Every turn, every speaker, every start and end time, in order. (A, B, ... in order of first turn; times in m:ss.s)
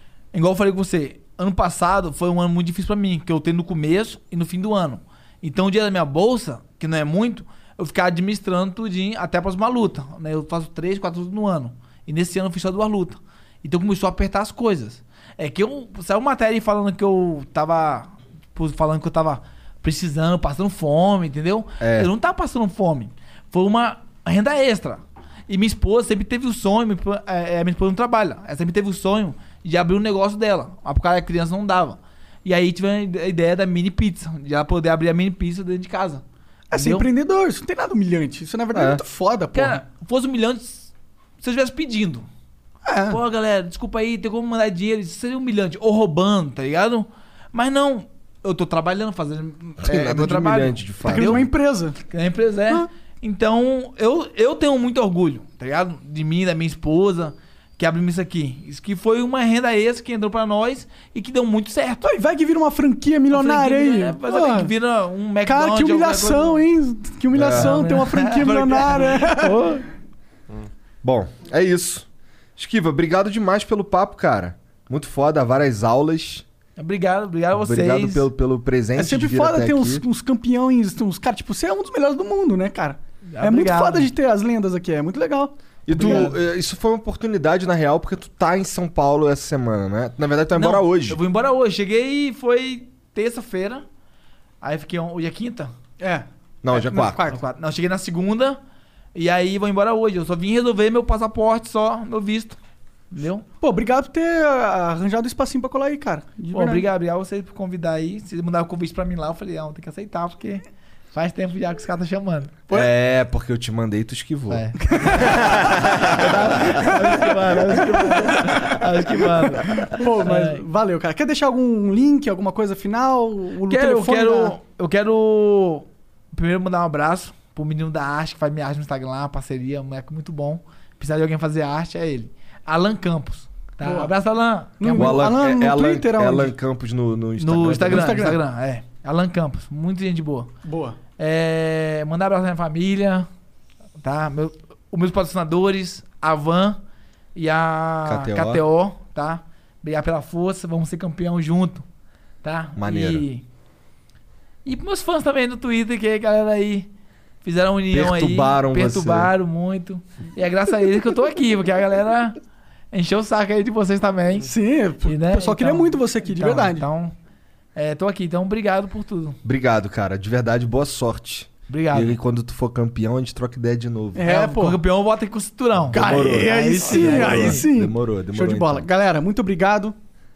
0:00.3-0:37.1 A
0:21.8-0:22.1 B
0:36.7-0:39.8 C
0:38.7-0:39.0 B
0:39.5-0:40.9 A
0:41.4-0:42.3 A
0:42.8-0:43.2 C
0:43.1-0:51.5 A
0:49.8-0:51.5 B
0:51.1-0:52.0 C
0:52.1-1:02.1 A
1:02.0-1:04.7 C
1:03.3-1:06.6 A
1:05.5-1:09.6 C
1:07.3-1:07.8 B
1:07.4-1:09.8 A
1:11.0-1:16.4 B
1:16.8-1:18.3 A
1:17.5-1:20.0 B
1:19.0-1:26.3 C
1:23.3-1:24.1 A
1:25.9-1:31.2 B
1:25.9-1:26.4 A
1:30.5-1:33.8 A
1:34.6-1:35.7 A
1:36.0-1:37.4 C
1:36.6-1:37.2 B
1:37.2-1:38.6 A
1:39.1-1:42.6 A
1:43.1-1:43.4 A
1:43.6-1:46.8 C
1:46.5-1:52.6 A
1:52.7-1:57.0 B
1:54.5-1:55.3 A
1:55.0-1:55.9 C
1:56.0-2:00.6 A
1:56.8-1:58.5 C
1:59.9-2:04.6 C
2:03.7-2:15.2 A
2:13.8-2:14.1 C
2:14.8-2:16.5 C
2:14.9-2:18.2 B
2:17.4-2:20.5 A
2:17.8-2:18.4 C
2:20.6-2:21.0 C
2:21.2-2:23.3 A
2:24.0-2:26.8 A
2:27.4-2:31.9 A
2:28.0-2:28.6 B
2:32.4-2:33.4 A
2:32.8-2:33.3 B
2:34.6-2:36.9 A
2:37.4-2:42.4 A
2:37.9-2:39.3 B
2:42.9-2:44.5 A
2:44.5-2:46.8 C
2:45.0-2:47.1 A
2:47.8-2:49.4 A
2:49.4-2:54.3 B
2:51.7-2:52.2 A
2:54.2-2:54.8 C
2:54.2-2:57.7 A
2:55.8-2:58.9 B
2:55.9-3:00.0 C